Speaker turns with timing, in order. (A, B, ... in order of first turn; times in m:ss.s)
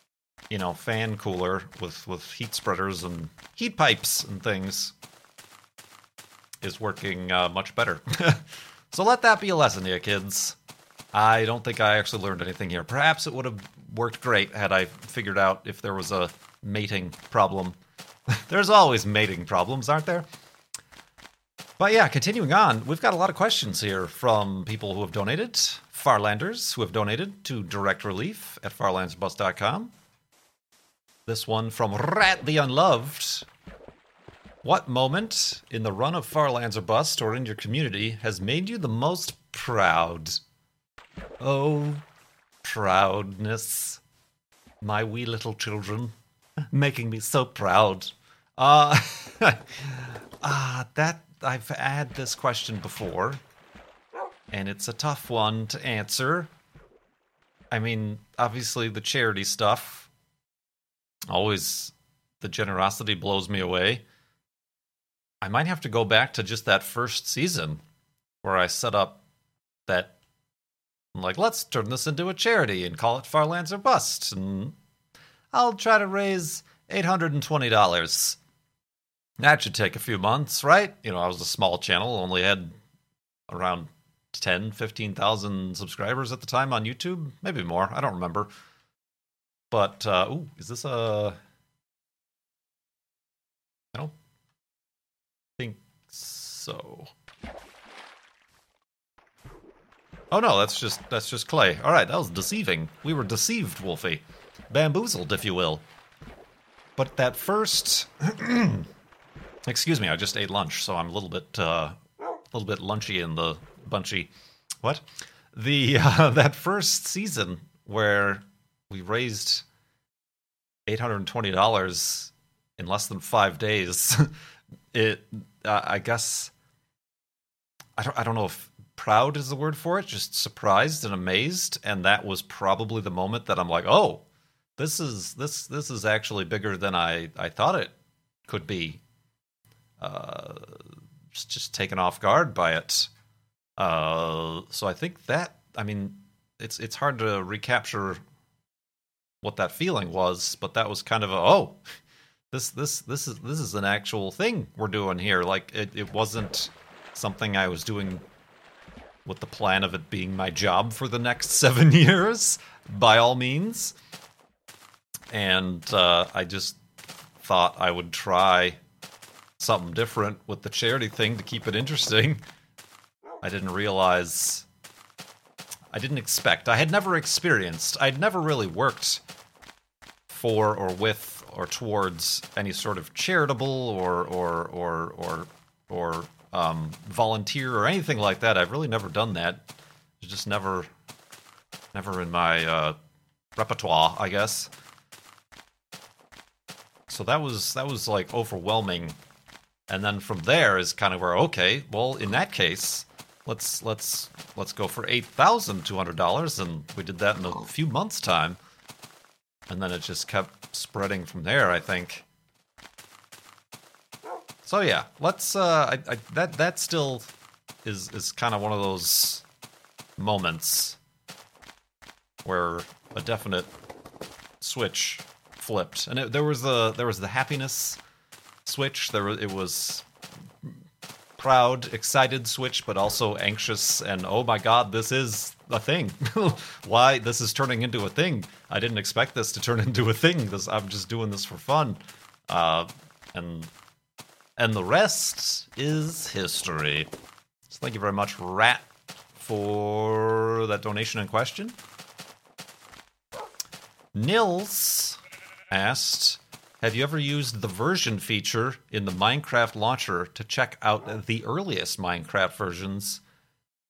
0:00.5-0:05.0 A
0:06.6-0:10.6 A
0:11.1-0:17.8 A
0:18.3-0:20.3 A
0:21.8-0:29.9 A
0:31.3-0:33.5 A
0:34.6-0:40.4 A
0:41.4-0:42.0 A
0:42.6-0:44.0 A
0:44.8-0:46.1 A
0:46.7-0:53.4 A
0:54.5-0:56.5 A
0:57.7-1:00.1 A
1:01.3-1:04.0 A
1:05.4-1:07.8 A
1:08.4-1:09.2 A
1:09.9-1:10.2 A
1:11.1-1:14.8 A
1:15.5-1:18.4 A
1:19.4-1:22.7 A
1:23.5-1:28.5 A
1:29.7-1:31.4 A
1:35.6-1:37.1 A
1:40.3-1:45.8 A
1:47.0-1:48.9 A
1:49.7-1:52.0 A
1:52.5-1:54.3 A
1:54.8-1:59.6 A
2:00.9-2:04.3 A
2:04.9-2:06.5 A
2:08.0-2:14.2 A
2:14.8-2:17.9 A
2:18.5-2:19.0 A
2:20.0-2:23.1 A
2:23.8-2:28.2 A
2:29.4-2:31.8 A
2:32.5-2:38.2 A
2:39.2-2:44.0 A
2:45.3-2:46.8 A
2:47.4-2:48.8 A
2:49.6-2:52.4 A
2:53.4-2:54.7 A
2:55.9-2:59.2 A
3:00.3-3:09.7 A
3:10.2-3:10.9 A
3:11.9-3:13.0 A
3:13.6-3:14.7 A
3:17.1-3:19.2 A
3:19.9-3:28.6 A
3:29.7-3:32.2 A
3:34.6-3:37.3 A
3:37.8-3:39.4 A
3:40.2-3:41.0 A
3:42.4-3:43.7 A
3:44.6-3:48.0 A
3:48.7-3:50.1 A
3:51.4-4:03.7 A
4:04.6-4:07.1 A
4:07.7-4:11.8 A
4:14.2-4:15.2 A
4:15.7-4:23.2 A